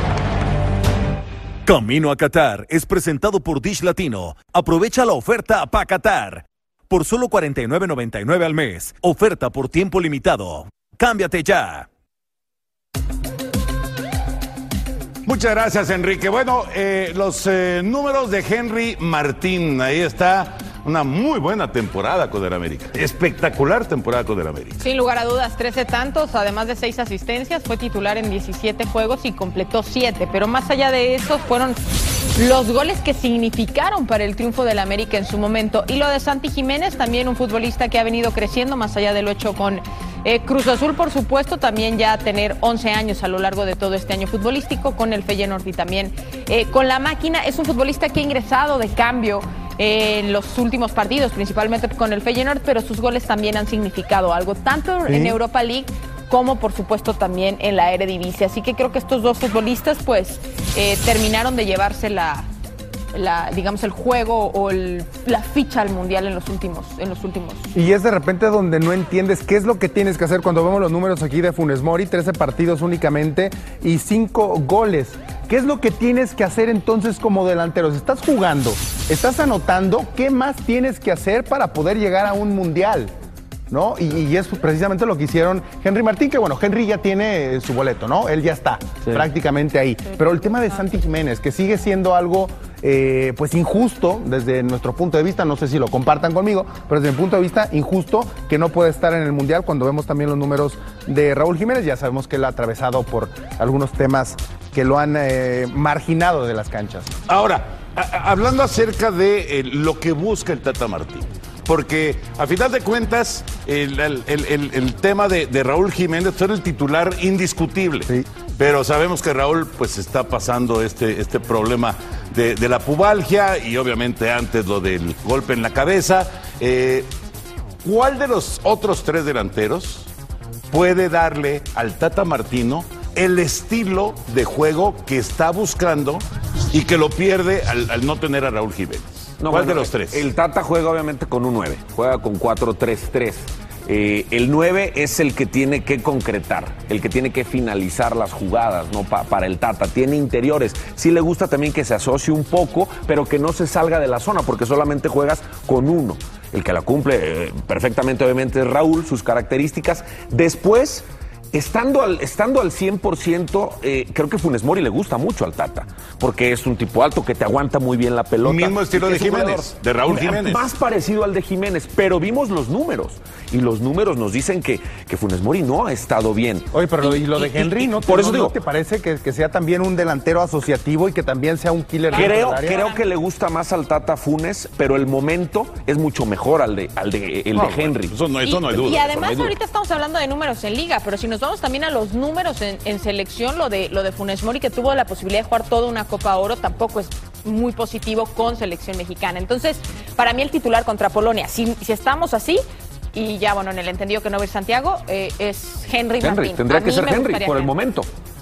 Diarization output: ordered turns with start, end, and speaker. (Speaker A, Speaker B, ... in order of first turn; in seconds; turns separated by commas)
Speaker A: 1.6-11.9, Speaker B: 15.2-24.8, Speaker C: 24.8-31.8, Speaker C: 32.4-62.5, Speaker D: 55.1-55.4, Speaker C: 63.1-67.7, Speaker D: 67.7-83.1, Speaker D: 83.7-107.1, Speaker C: 90.2-90.7, Speaker B: 107.3-127.1, Speaker B: 127.8-130.1, Speaker B: 130.7-140.3, Speaker E: 139.4-178.5, Speaker B: 168.4-170.7, Speaker D: 176.7-182.8, Speaker E: 182.1-188.2, Speaker C: 182.1-183.0, Speaker B: 187.5-189.1, Speaker C: 188.4-207.7, Speaker E: 189.0-189.5, Speaker E: 206.2-208.1